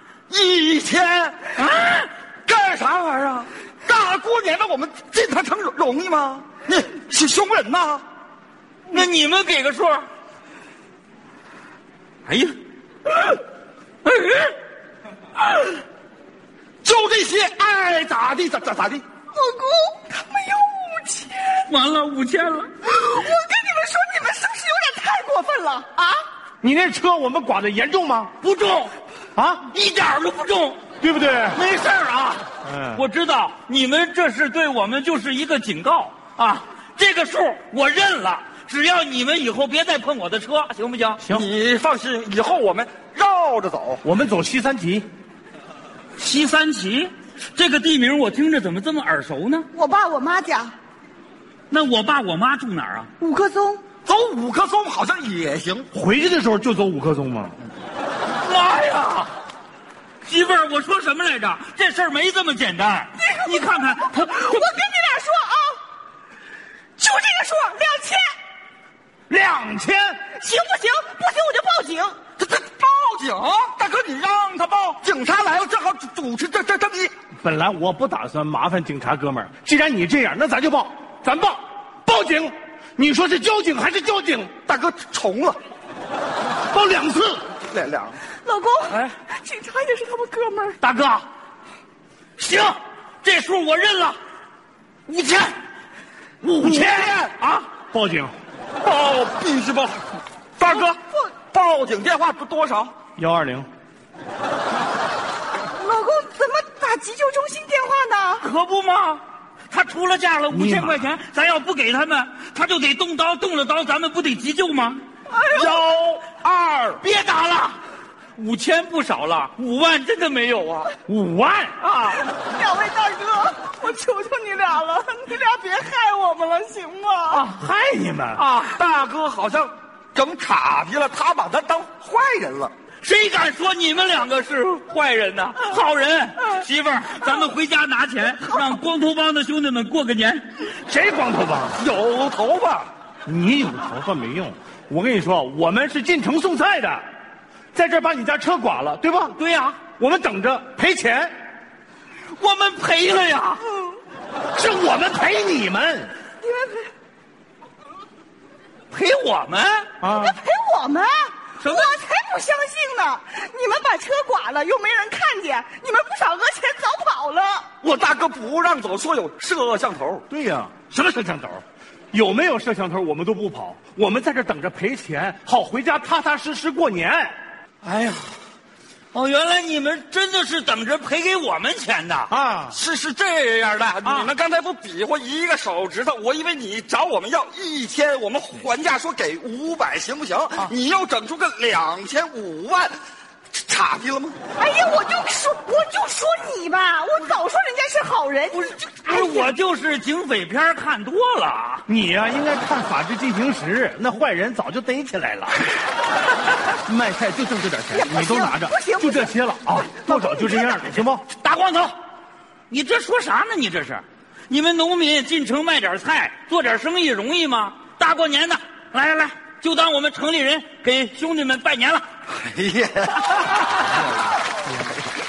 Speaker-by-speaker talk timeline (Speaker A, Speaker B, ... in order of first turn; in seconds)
Speaker A: 0.3-1.5, 2.5-8.1, 16.8-19.1, 41.3-44.0, 54.0-55.9, 72.4-77.1, 84.6-85.6, 87.7-88.2, 96.6-97.3, 98.8-100.1, 100.6-101.0, 101.5-102.9, 128.4-132.7, 141.8-142.9, 167.8-170.2, 182.7-192.9, 193.5-194.4, 222.3-223.4
Speaker B: 1.6-2.1, 8.9-10.1, 12.3-12.6, 14.1-14.5, 21.6-22.7, 28.4-28.9, 29.7-30.8, 31.5-41.2, 46.2-49.7, 51.7-53.1, 58.4-59.3, 60.2-64.7, 90.8-91.3, 92.4-94.2, 95.1-95.5, 97.4-97.7, 108.4-117.8, 118.4-120.9, 121.8-122.2, 133.0-140.5, 149.3-149.8, 152.4-153.6, 158.9-159.9, 161.6-162.0, 177.8-178.4, 179.1-182.3, 184.0-184.3, 198.6-201.8, 211.3-211.9, 212.7-222.1
Speaker C: 19.3-21.6, 22.9-26.2, 49.7-50.7, 53.2-53.9, 63.2-65.8, 67.0-68.3, 70.3-72.2, 88.4-90.8, 100.7-101.3, 105.7-108.5, 115.3-115.8, 122.1-127.5, 156.4-156.9, 160.1-167.7, 194.6-199.5, 207.9-211.0
Speaker D: 26.6-28.3, 29.4-29.7, 31.0-31.6, 32.6-33.0, 44.0-45.1, 55.9-57.6, 69.3-70.2, 77.4-84.6, 86.7-87.5, 96.4-97.1, 97.8-98.3, 103.2-103.7, 110.5-111.0, 121.1-121.8, 127.5-128.4, 140.8-141.8, 143.3-147.0, 147.7-149.4, 150.0-151.3, 154.5-156.1, 160.0-160.4, 170.3-177.3, 182.3-182.8, 201.9-205.7, 206.7-211.3